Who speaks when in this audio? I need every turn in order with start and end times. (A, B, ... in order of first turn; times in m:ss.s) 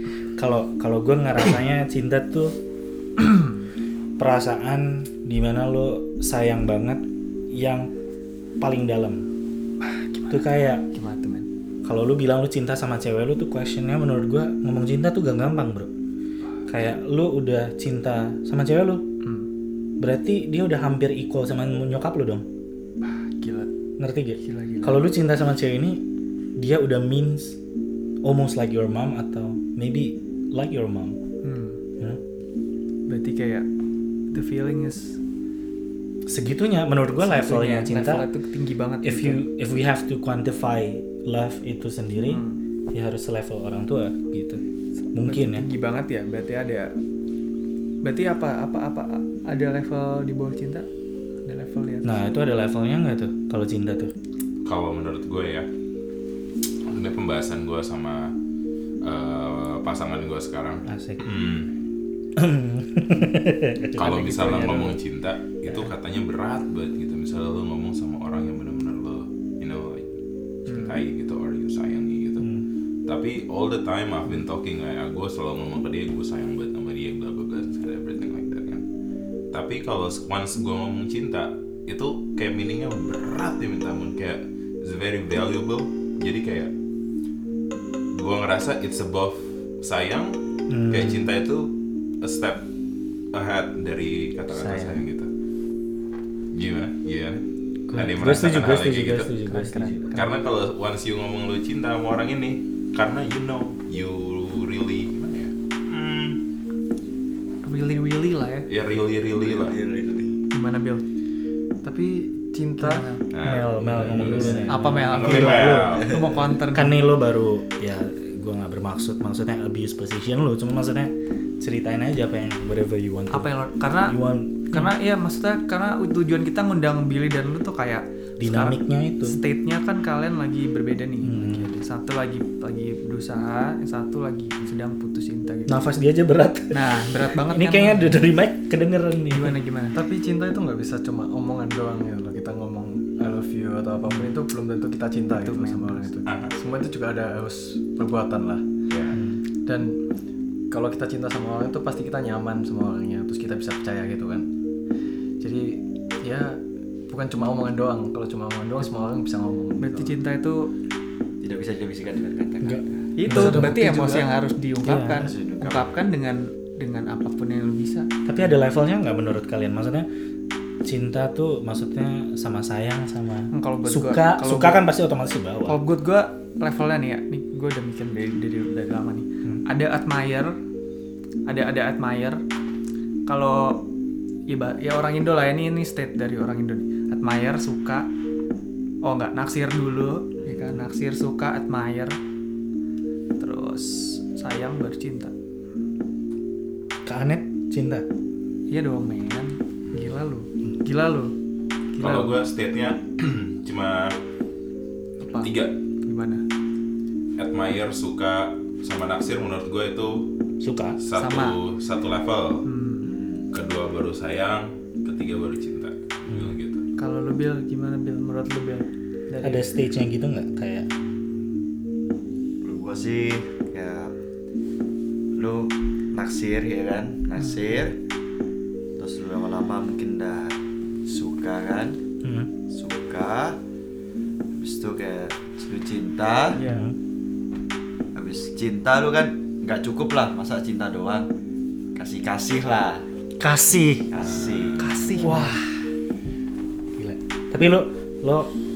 0:00.4-0:02.6 A
0:03.2-0:03.6 B
0:04.2-0:07.9 A
0:08.6-0:09.2 A
0:09.8-0:11.5 B
0:10.3-0:10.8 A
0:11.8-0:15.9 A
0:16.7-0:19.0 A
0:19.2-0:19.5 B
0:20.0-0:22.4 A
0:23.0-0:23.7 B
0:24.0-0:26.0 A
0:24.4-0:25.0 B
0:26.6-0:27.6 A
0:28.2-0:31.2 A
0:31.4-0:31.8 B
0:33.1-0:33.6 B
0:34.3-0:35.2 B
0:36.3-0:38.2 A
0:37.1-0:39.4 B
0:39.0-0:44.6 A
0:42.2-0:42.6 B
0:45.0-0:46.9 B
0:45.1-0:45.7 A
0:48.0-0:50.9 B
0:51.4-0:52.2 B
0:52.0-0:54.1 A
0:54.6-0:55.7 C
0:56.9-0:58.3 C
0:59.0-1:01.7 C
1:00.8-1:01.2 A
1:02.4-1:05.0 A
1:04.0-1:10.1 C
1:10.7-1:11.0 B
1:10.7-1:12.5 C
1:13.0-1:18.8 C
1:19.5-1:26.7 C
1:28.1-1:30.4 C
1:30.7-1:31.3 A
1:30.9-1:32.6 C
1:33.3-1:35.3 C
1:34.5-1:35.0 A
1:36.5-1:37.4 C
1:37.9-1:40.1 A
1:37.9-1:39.3 C
1:39.4-1:40.3 B
1:40.1-1:46.4 C
1:47.6-1:48.7 B
1:48.7-1:49.8 C
1:49.3-1:50.4 D
1:50.5-1:51.0 B
1:51.8-1:53.2 E
1:52.8-1:53.3 B
1:53.3-1:56.2 C
1:53.4-1:56.0 A
1:54.7-1:57.0 B
1:55.9-1:56.2 D
1:56.7-2:04.9 A
2:03.3-2:04.2 B
2:04.7-2:15.8 B
2:08.4-2:09.4 A
2:11.2-2:11.7 A
2:15.7-2:19.6 A
2:16.7-2:18.2 B
2:19.3-2:20.0 B
2:19.9-2:28.6 E
2:25.3-2:26.1 B
2:26.2-2:26.5 C
2:28.9-2:29.2 C
2:29.1-2:29.4 A
2:29.6-2:30.0 E
2:30.7-2:34.5 E
2:35.4-2:40.2 E
2:39.8-2:40.7 B
2:41.4-2:43.0 D
2:42.6-2:43.8 A
2:43.2-2:48.1 B
2:43.2-2:44.3 E
2:44.8-2:45.3 A
2:45.2-2:45.9 D
2:48.2-2:50.1 A
2:50.8-2:55.8 A
2:53.5-2:54.8 B
2:55.7-3:00.5 B
3:01.5-3:02.4 B
3:03.3-3:03.8 B
3:04.5-3:08.1 B
3:09.0-3:12.2 B
3:10.4-3:10.8 D
3:13.4-3:15.3 B
3:17.0-3:18.0 A
3:18.7-3:21.3 B
3:21.9-3:22.4 B
3:22.0-3:24.2 C
3:25.2-3:25.5 B
3:25.4-3:25.7 C
3:26.0-3:26.4 B
3:27.4-3:30.3 C
3:30.6-3:31.0 A
3:31.0-3:32.6 C
3:31.1-3:31.6 B
3:32.6-3:33.1 B
3:33.0-3:33.5 D
3:33.5-3:36.8 C
3:36.3-3:36.6 A
3:37.0-3:39.6 B
3:39.4-3:40.9 A
3:42.6-3:44.1 D
3:45.3-3:48.0 D
3:47.4-3:47.7 B
3:49.0-3:52.0 D
3:52.2-3:52.5 A
3:52.7-3:53.6 D
3:54.5-3:56.6 D
3:56.5-3:56.9 B
3:56.6-3:57.0 A
3:58.1-4:01.3 D
4:01.9-4:03.0 D
4:03.4-4:04.1 A
4:04.1-4:05.0 D
4:04.2-4:05.0 C
4:04.8-4:05.5 B
4:05.2-4:05.7 A
4:07.0-4:08.5 A